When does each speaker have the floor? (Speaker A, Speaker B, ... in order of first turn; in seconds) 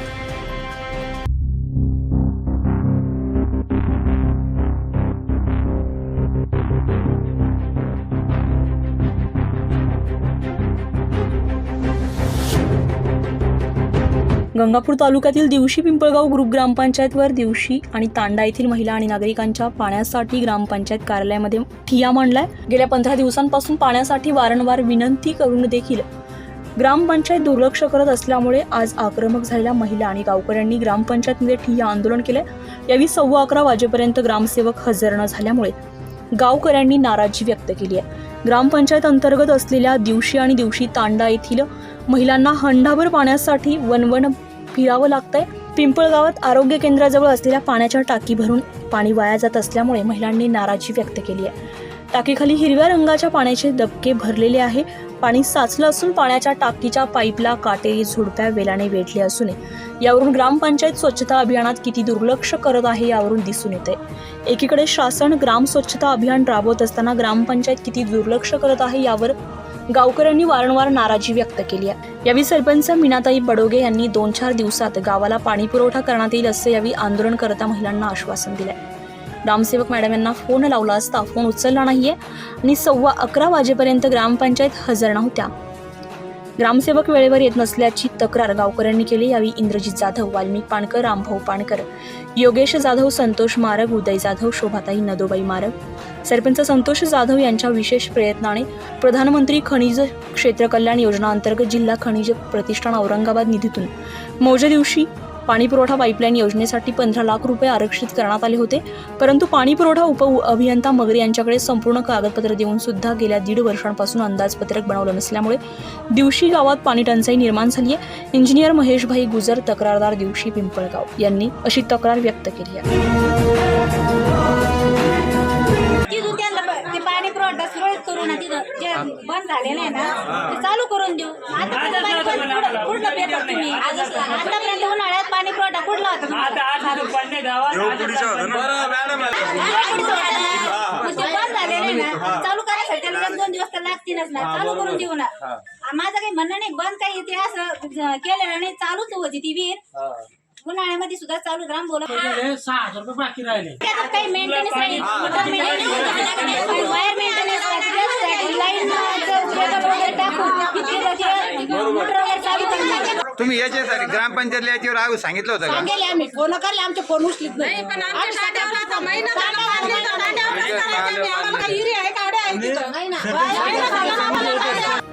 Speaker A: 14.5-26.1, 26.8-35.7, 36.3-51.5, 52.1-69.3, 69.9-78.8, 79.4-85.5, 86.6-95.7, 96.2-115.6, 116.1-122.8
Speaker B: 126.1-137.1, 139.4-149.8, 150.6-152.4, 153.8-163.2
Speaker C: 131.7-134.3, 136.4-139.2, 152.2-153.8, 154.7-156.4
Speaker D: 163.4-165.8
Speaker E: 165.5-174.9